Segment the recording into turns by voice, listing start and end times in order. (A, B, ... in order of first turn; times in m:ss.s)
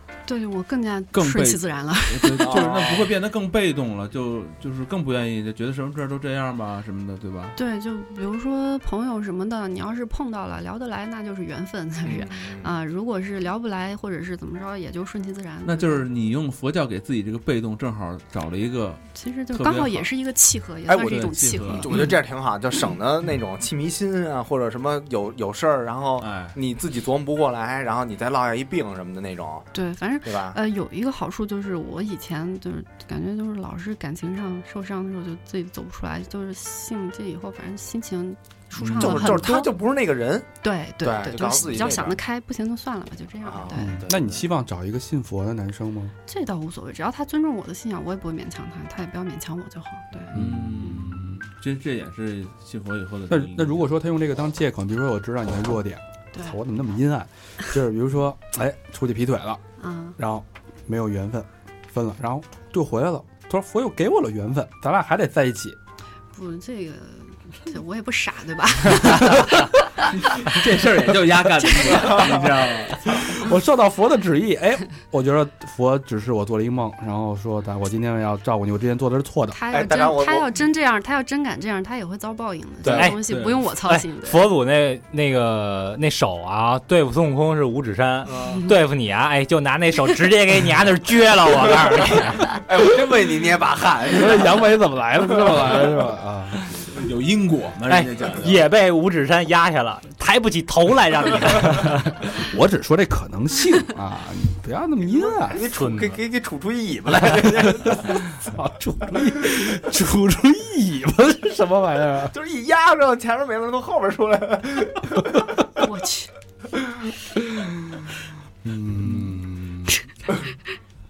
0:00.3-0:02.7 A
0:01.1-0:07.6 B
0:02.4-0:03.2 C
0:07.6-0:16.0 A
0:12.0-0:12.8 C
0:15.6-0:20.1 B
0:19.2-0:22.1 A
0:20.9-0:29.7 C
0:21.0-0:22.1 B
0:26.2-0:26.6 B
0:29.7-0:39.7 A
0:30.2-0:30.6 C
0:38.9-0:40.5 C
0:40.6-0:44.0 A
0:41.0-0:42.2 C
0:43.4-0:44.5 C
0:43.7-0:46.2 D
0:46.3-0:50.4 A
0:50.1-0:50.4 C
0:50.3-0:51.4 D
0:50.3-0:53.9 B
0:53.3-0:59.6 D
0:56.3-0:56.6 A
0:59.8-1:00.2 A
1:00.2-1:05.8 D
1:06.3-1:10.1 A
1:09.3-1:13.4 B
1:11.6-1:12.4 A
1:13.1-1:19.6 D
1:19.5-1:24.5 A
1:19.7-1:20.6 C
1:22.8-1:23.1 C
1:22.8-1:23.2 E
1:23.2-1:23.7 B
1:23.8-1:32.5 E
1:28.3-1:28.6 C
1:32.4-1:34.7 C
1:34.1-1:36.7 D
1:35.4-1:35.9 C
1:36.8-1:38.6 B
1:37.9-1:42.2 E
1:42.2-1:45.7 D
1:45.2-1:48.3 C
1:45.7-1:46.2 E
1:47.8-1:52.3 D
1:52.3-1:55.7 C
1:55.8-1:56.3 A
1:58.6-2:00.0 D